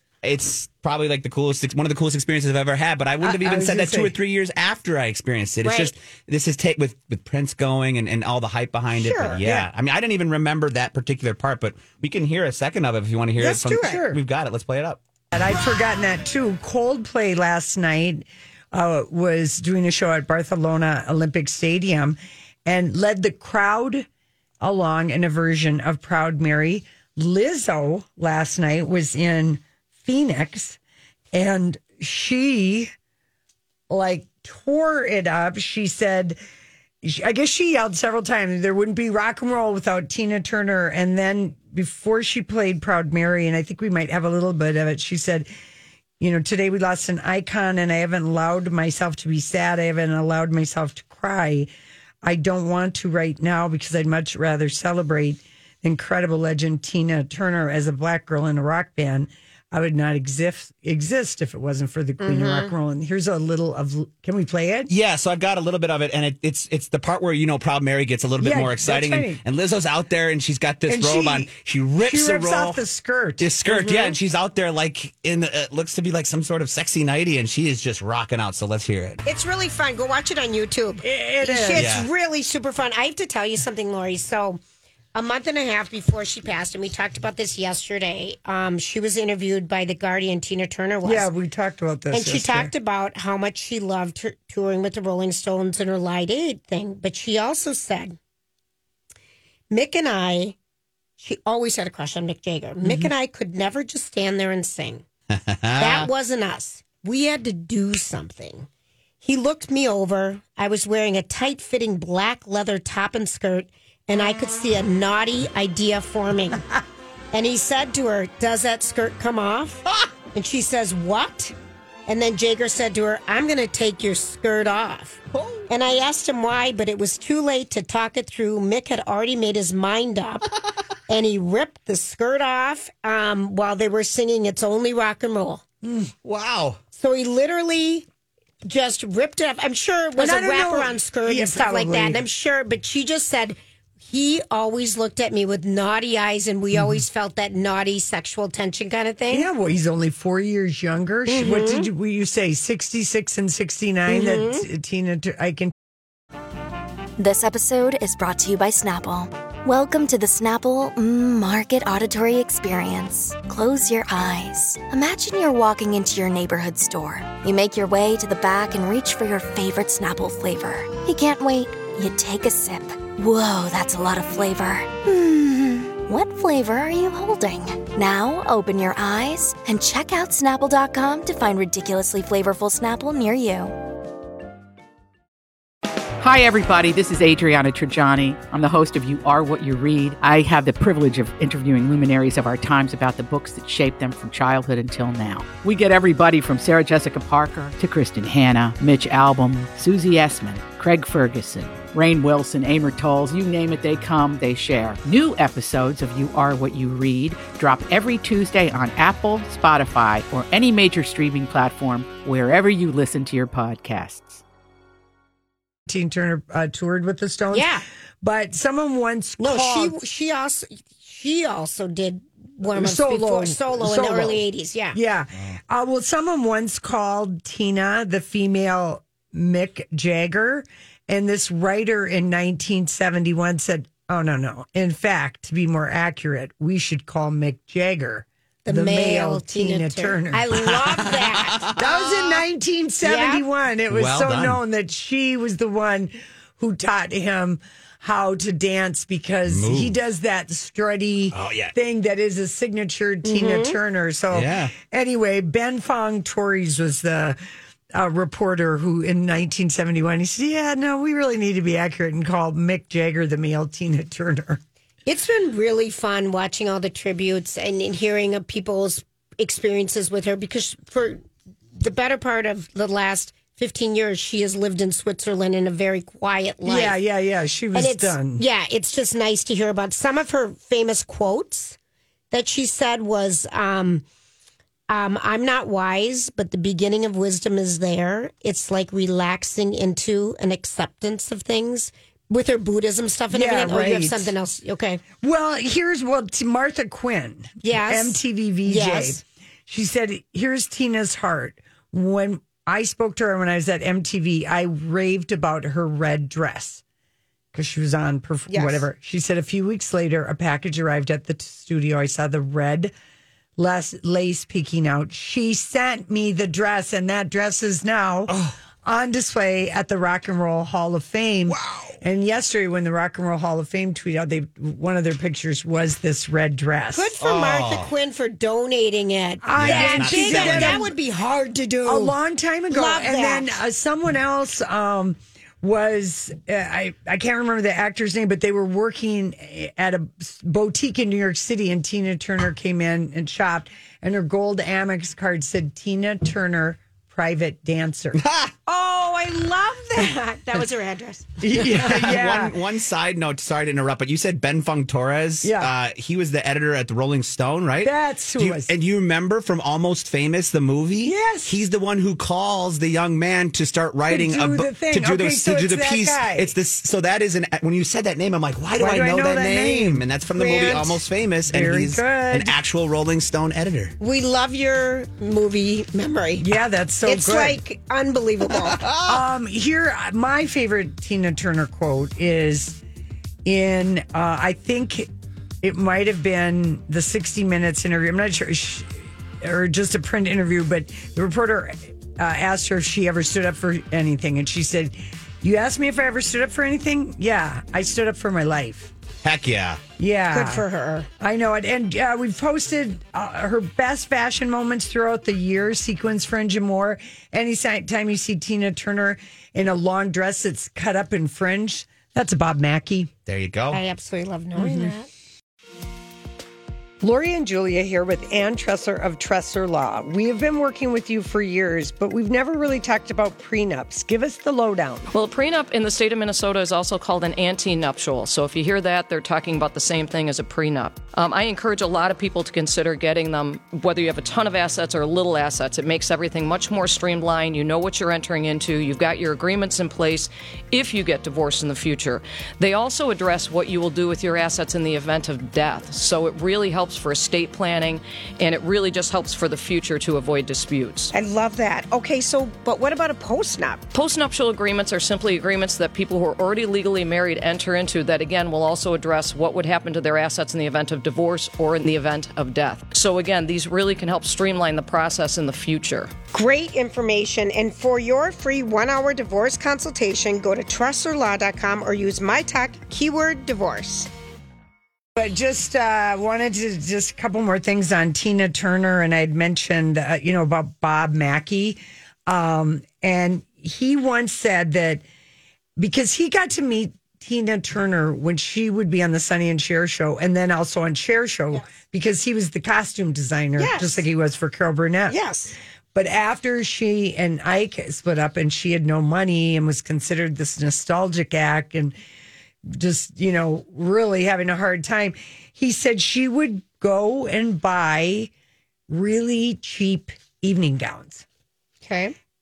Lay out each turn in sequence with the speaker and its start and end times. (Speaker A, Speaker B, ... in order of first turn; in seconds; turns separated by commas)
Speaker A: 0.2-15.0, Speaker B: 3.2-4.1, Speaker C: 5.6-5.9, Speaker C: 9.0-9.4, Speaker B: 9.4-9.7, Speaker C: 13.4-14.1, Speaker B: 13.8-14.2, Speaker B: 15.3-24.1, Speaker B: 24.6-30.8, Speaker B: 31.3-32.9, Speaker B: 33.9-36.4, Speaker B: 37.0-45.5, Speaker B: 46.2-51.7, Speaker B: 52.2-64.9, Speaker C: 62.2-62.7, Speaker A: 64.9-72.8, Speaker B: 68.4-69.4, Speaker B: 70.9-74.2, Speaker A: 73.4-79.2, Speaker C: 79.2-84.6, Speaker B: 81.0-82.0, Speaker A: 81.7-82.1, Speaker C: 85.2-91.3, Speaker B: 91.0-92.7, Speaker C: 92.1-98.2, Speaker C: 99.7-100.6, Speaker C: 101.2-105.0, Speaker B: 102.8-103.1, Speaker A: 105.3-106.1, Speaker C: 105.8-108.7, Speaker C: 109.2-116.7, Speaker C: 117.3-119.8, Speaker C: 120.3-121.5, Speaker C: 122.1-130.5, Speaker A: 125.3-125.7, Speaker C: 131.1-135.6, Speaker B: 135.8-136.1, Speaker A: 136.2-136.8, Speaker C: 136.9-138.1, Speaker C: 138.7-149.5, Speaker B: 140.2-142.2, Speaker B: 149.3-155.7, Speaker C: 151.3-151.9, Speaker C: 154.1-154.7, Speaker D: 157.2-183.8, Speaker E: 186.2-214.4, Speaker B: 215.9-220.0, Speaker C: 217.5-217.8, Speaker C: 219.4-225.0, Speaker B: 222.7-240.5, Speaker C: 238.7-241.7, Speaker A: 240.5-242.1, Speaker B: 241.8-257.4, Speaker C: 243.0-243.4, Speaker A: 243.9-244.6, Speaker A: 249.5-249.9, Speaker A: 251.3-251.7, Speaker C: 253.2-253.8, Speaker A: 254.3-254.7, Speaker B: 257.9-264.6, Speaker C: 265.1-271.2, Speaker C: 271.8-276.9, Speaker B: 276.6-278.4, Speaker C: 277.7-281.8, Speaker C: 282.3-284.1, Speaker C: 284.9-295.0, Speaker B: 293.3-294.3, Speaker B: 295.2-306.8, Speaker C: 297.6-299.2, Speaker B: 307.5-312.9, Speaker C: 308.5-308.9, Speaker B: 313.6-327.1, Speaker A: 318.3-318.6, Speaker A: 321.5-322.0, Speaker C: 326.9-332.1, Speaker A: 327.2-327.9, Speaker B: 329.4-330.9, Speaker A: 329.6-330.9, Speaker B: 331.9-348.2, Speaker C: 332.7-333.6, Speaker A: 348.2-348.5, Speaker C: 348.7-351.3, Speaker B: 351.4-352.6, Speaker A: 351.5-374.0, Speaker B: 355.4-355.7, Speaker B: 357.8-358.7, Speaker B: 361.0-361.6, Speaker B: 364.1-366.6, Speaker B: 368.8-372.5, Speaker C: 374.0-376.5, Speaker B: 376.4-377.6, Speaker C: 377.1-378.9, Speaker A: 378.7-379.2, Speaker B: 379.0-382.8, Speaker B: 383.4-385.1, Speaker B: 385.6-398.9, Speaker A: 399.2-399.8, Speaker B: 400.0-400.6, Speaker C: 400.3-401.1, Speaker B: 401.2-413.1, Speaker A: 413.3-413.8, Speaker C: 413.7-415.1, Speaker B: 414.6-414.9, Speaker B: 417.0-425.1, Speaker F: 425.1-451.1, Speaker C: 451.1-453.8, Speaker F: 453.9-466.1, Speaker C: 466.3-474.1, Speaker B: 475.1-485.0, Speaker B: 485.8-495.2, Speaker C: 493.6-494.0, Speaker C: 495.1-495.6, Speaker B: 495.9-501.9, Speaker B: 502.7-508.3, Speaker B: 508.9-511.2, Speaker C: 511.8-512.2